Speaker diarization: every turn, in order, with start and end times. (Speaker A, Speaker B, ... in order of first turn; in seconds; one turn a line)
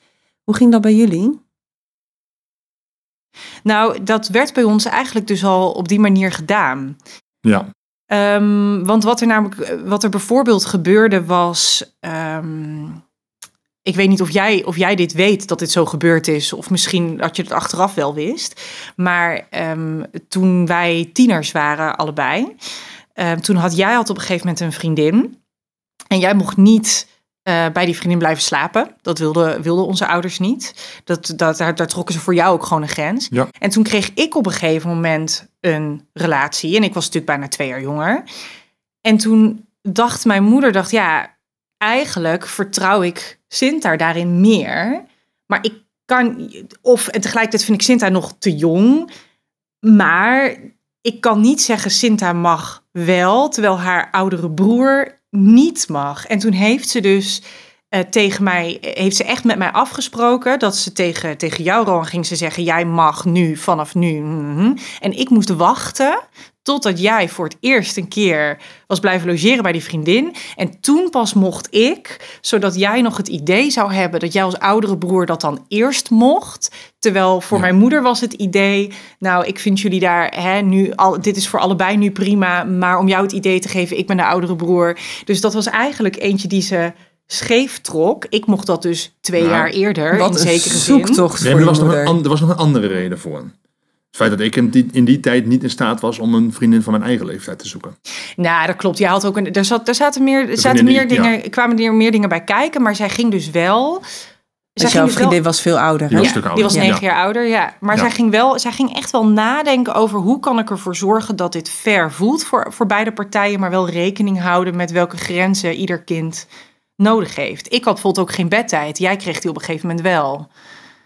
Speaker A: 0.5-1.4
Speaker B: 3.6-7.0
Speaker B: 8.1-13.0
Speaker B: 13.8-22.5
Speaker B: 23.2-25.4
Speaker B: 26.1-38.2
Speaker B: 39.0-49.1
Speaker B: 49.8-91.2
Speaker C: 89.4-89.7
Speaker A: 90.1-92.2
Speaker C: 91.4-93.5
Speaker C: 94.1-98.0
Speaker B: 98.4-104.0
Speaker C: 100.6-101.3
Speaker B: 104.8-105.4
Speaker A: 104.8-106.9
Speaker C: 106.1-107.0
Speaker B: 106.1-116.5
Speaker B: 117.0-120.5